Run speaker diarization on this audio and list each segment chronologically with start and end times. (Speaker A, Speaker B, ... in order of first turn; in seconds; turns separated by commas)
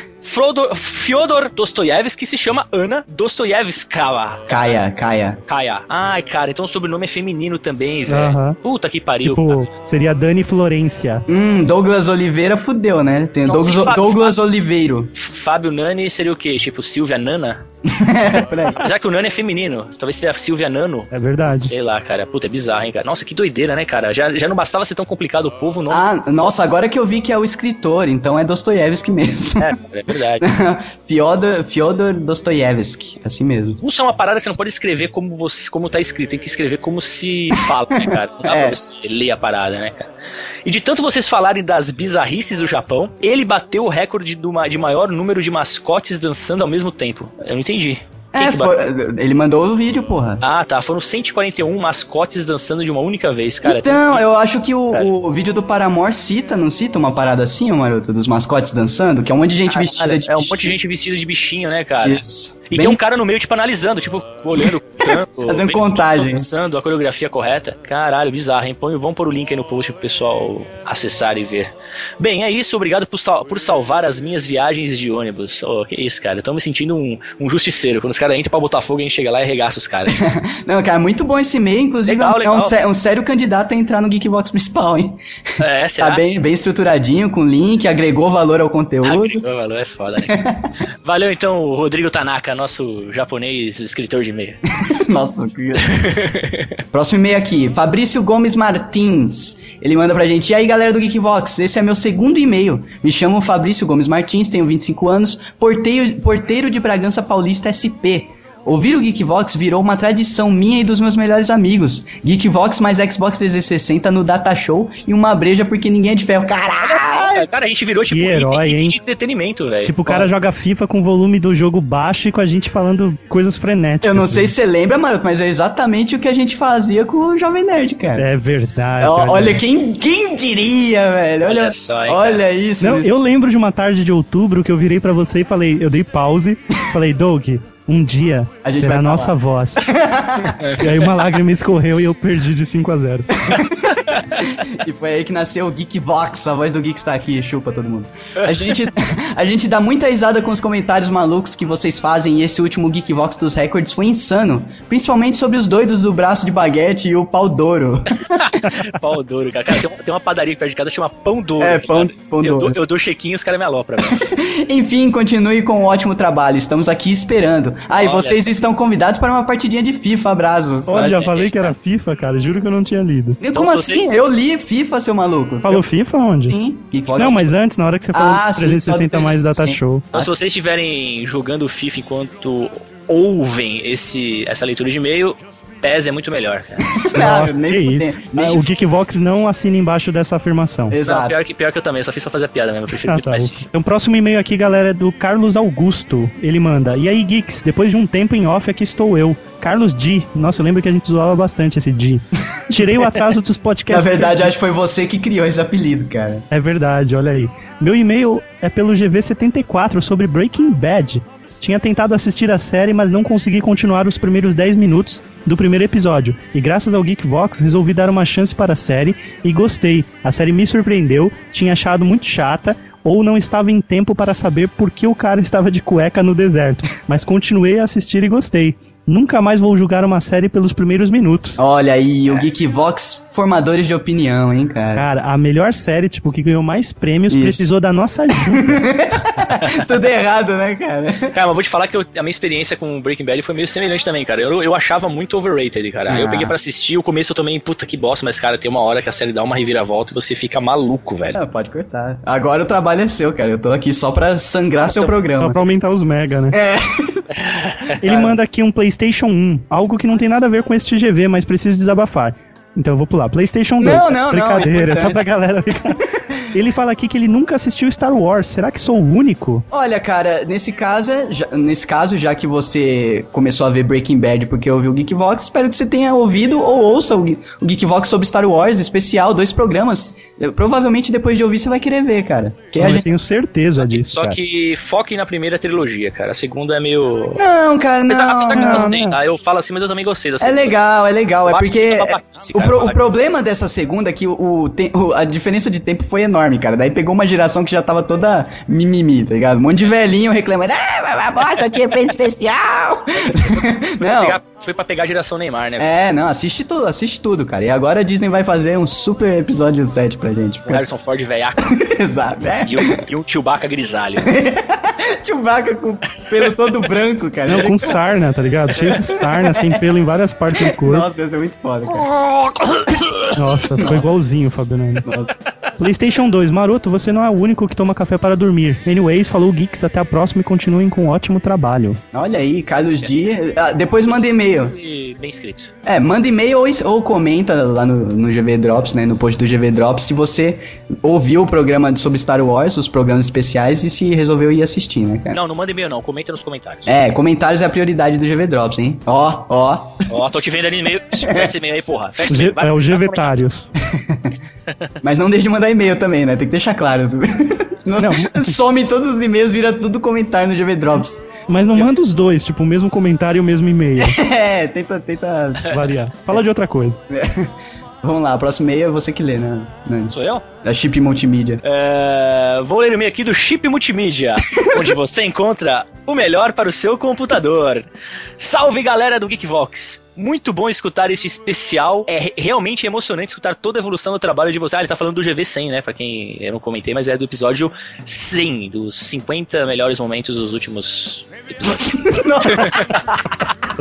Speaker A: 0.2-4.8, Speaker B: 4.5-5.4, Speaker A: 5.5-9.7, Speaker C: 8.1-8.6, Speaker C: 9.2-11.2, Speaker B: 11.3-15.1, Speaker A: 13.4-14.4, Speaker A: 15.2-17.6, Speaker B: 17.9-18.8, Speaker A: 18.7-26.1, Speaker C: 21.1-21.7, Speaker B: 25.9-29.7, Speaker A: 29.6-30.5, Speaker B: 30.4-33.8, Speaker A: 33.8-40.1, Speaker B: 38.0-38.8, Speaker A: 40.6-48.7, Speaker B: 48.3-50.4, Speaker A: 50.4-54.2, Speaker B: 53.6-60.8, Speaker A: 59.7-80.2, Speaker B: 62.0-63.0, Speaker B: 65.4-66.5, Speaker B: 80.1-85.2, Speaker A: 82.1-82.8, Speaker A: 85.6-86.3, Speaker B: 86.0-89.4, Speaker A: 89.0-90.4, Speaker B: 90.2-90.7, Speaker A: 91.0-94.6, Speaker B: 94.8-95.9, Speaker A: 95.8-96.8, Speaker B: 96.9-117.5, Speaker A: 116.8-120.0, Speaker C: 118.1-119.0, Speaker C: 119.8-124.5, Speaker B: 124.0-128.3, Speaker C: 128.2-129.6, Speaker B: 129.0-133.1, Speaker A: 131.4-132.4, Speaker C: 132.8-139.9, Speaker B: 138.6-140.6, Speaker A: 140.6-141.0, Speaker C: 140.8-143.5, Speaker B: 143.4-158.2, Speaker A: 143.8-144.6, Speaker A: 158.3-164.3, Speaker B: 161.6-162.8, Speaker B: 164.1-171.2, Speaker A: 167.9-168.5, Speaker C: 170.9-173.4, Speaker A: 171.0-171.8, Speaker B: 173.4-175.9, Speaker A: 173.5-174.1, Speaker C: 175.6-176.6, Speaker B: 176.4-177.5, Speaker C: 177.1-180.1, Speaker B: 178.1-180.3, Speaker A: 180.1-187.0, Speaker B: 186.9-188.7, Speaker C: 187.2-190.9, Speaker B: 190.9-191.4, Speaker A: 191.0-193.7, Speaker C: 193.0-204.5, Speaker B: 203.9-206.4, Speaker C: 206.5-231.6, Speaker B: 231.6-235.1, Speaker C: 234.9-238.8, Speaker B: 237.3-237.7, Speaker B: 238.4-241.3, Speaker A: 239.6-239.9, Speaker A: 241.3-251.4, Speaker B: 246.1-246.6, Speaker B: 251.3-255.6, Speaker A: 254.8-255.1, Speaker C: 255.4-256.6, Speaker B: 256.5-257.3, Speaker A: 257.4-258.0, Speaker C: 258.0-269.6, Speaker B: 258.1-258.3, Speaker B: 263.8-265.2, Speaker B: 269.7-283.1, Speaker C: 282.8-284.4, Speaker A: 283.8-287.4, Speaker B: 287.4-289.0, Speaker A: 288.1-290.8, Speaker C: 288.5-289.2, Speaker B: 290.4-304.4, Speaker A: 291.5-293.0, Speaker A: 303.1-305.9, Speaker B: 305.8-310.8, Speaker A: 310.7-311.8, Speaker B: 311.6-313.0, Speaker A: 312.6-314.3, Speaker B: 314.2-318.0, Speaker C: 317.5-321.1, Speaker A: 317.5-317.9, Speaker B: 318.8-319.9, Speaker B: 320.6-322.1, Speaker A: 322.2-323.3, Speaker C: 323.4-325.1, Speaker B: 323.8-324.1, Speaker B: 325.1-325.4, Speaker C: 325.8-332.0, Speaker B: 332.1-334.8, Speaker A: 334.0-335.7, Speaker B: 335.9-345.4, Speaker A: 345.3-346.9, Speaker B: 346.9-350.1, Speaker A: 350.1-353.5, Speaker B: 351.2-351.5, Speaker C: 352.3-353.7, Speaker B: 353.8-354.3, Speaker A: 354.7-354.9, Speaker B: 355.0-361.3, Speaker C: 358.0-358.6, Speaker C: 361.5-364.2, Speaker B: 364.0-365.8, Speaker A: 365.6-365.9, Speaker C: 365.7-367.0, Speaker B: 367.1-371.6, Speaker A: 370.1-370.4, Speaker A: 371.6-377.9, Speaker B: 374.6-374.9, Speaker A: 378.4-393.5, Speaker B: 391.9-392.9